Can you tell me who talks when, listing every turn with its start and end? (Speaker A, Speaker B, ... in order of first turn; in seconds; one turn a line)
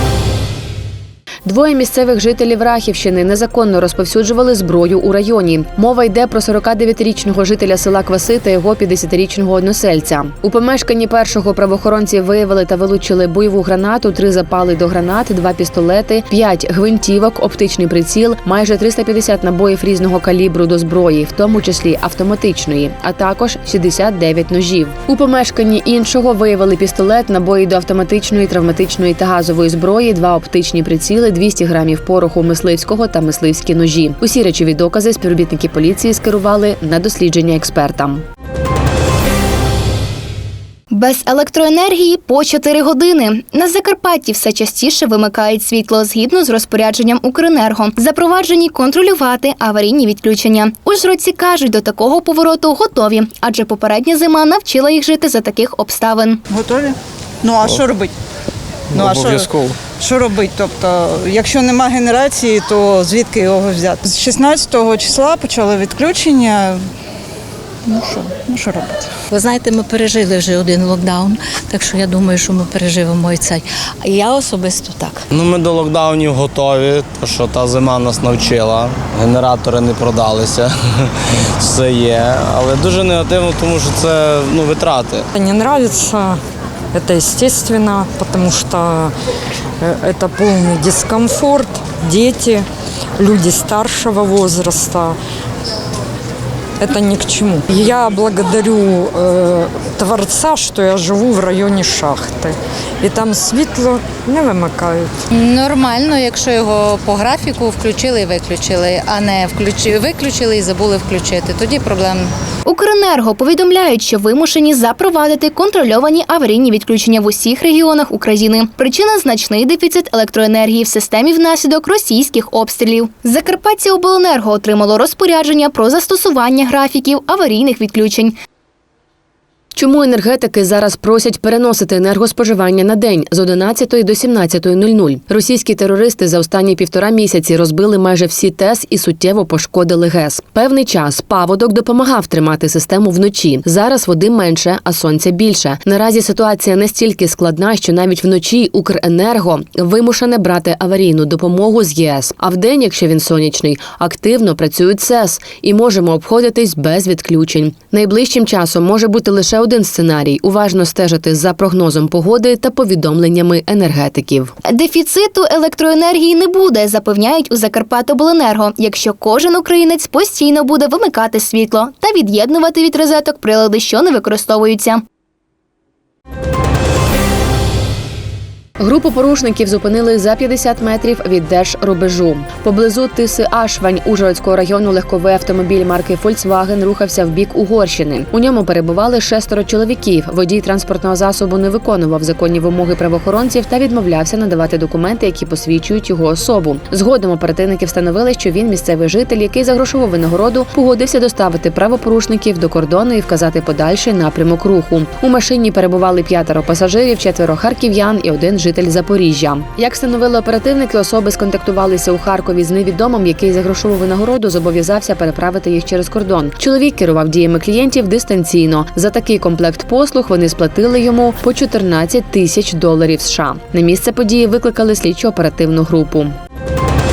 Speaker A: 1.4-38.2
Speaker B: 40.9-56.4
Speaker C: 56.5-58.1
Speaker C: 58.9-66.8
Speaker C: 67.9-69.1
Speaker D: 69.3-75.2
Speaker E: 75.3-80.7
Speaker E: 81.6-85.3
Speaker F: 85.3-86.4
Speaker F: 86.9-89.1
Speaker F: 89.8-92.7
Speaker F: 93.2-95.2
Speaker F: 96.8-105.1
Speaker G: 105.3-112.3
Speaker B: 112.7-128.3
Speaker A: 129.7-164.6
Speaker B: 164.7-175.0
Speaker A: 178.8-226.4